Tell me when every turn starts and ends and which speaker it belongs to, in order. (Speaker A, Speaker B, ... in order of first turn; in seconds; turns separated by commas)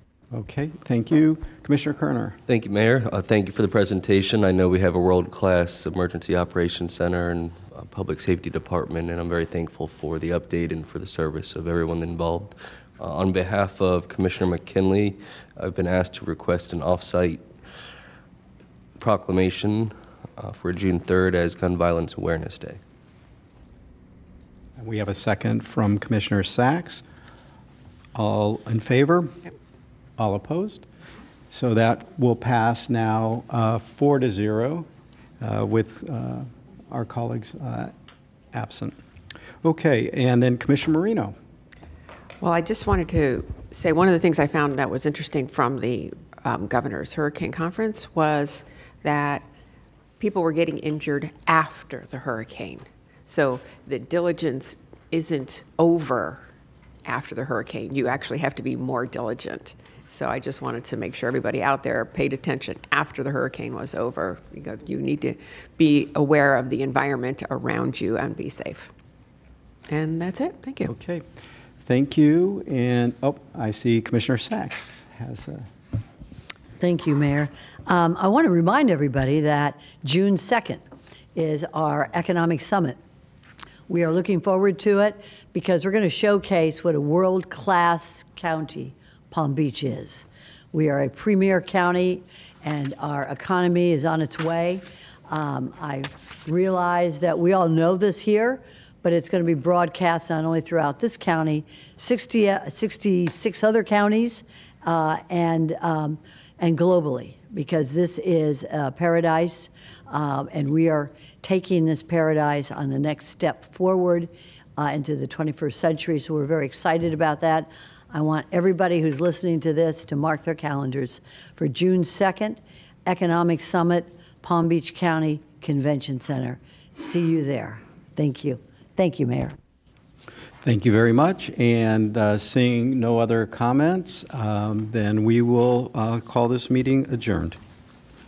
Speaker A: 0.3-2.4, Speaker B: 2.5-17.5, Speaker B: 19.0-22.8, Speaker A: 24.8-27.0, Speaker A: 28.1-29.4, Speaker A: 30.2-30.9, Speaker A: 31.5-34.9, Speaker A: 35.4-37.9, Speaker A: 38.5-39.0, Speaker A: 39.6-41.4, Speaker C: 42.4-49.5, Speaker C: 50.2-56.4, Speaker C: 57.0-68.9, Speaker C: 69.9-70.9, Speaker A: 70.8-71.3, Speaker A: 71.8-75.7, Speaker D: 76.8-80.8, Speaker D: 81.3-83.0, Speaker D: 83.9-129.6, Speaker A: 130.6-137.6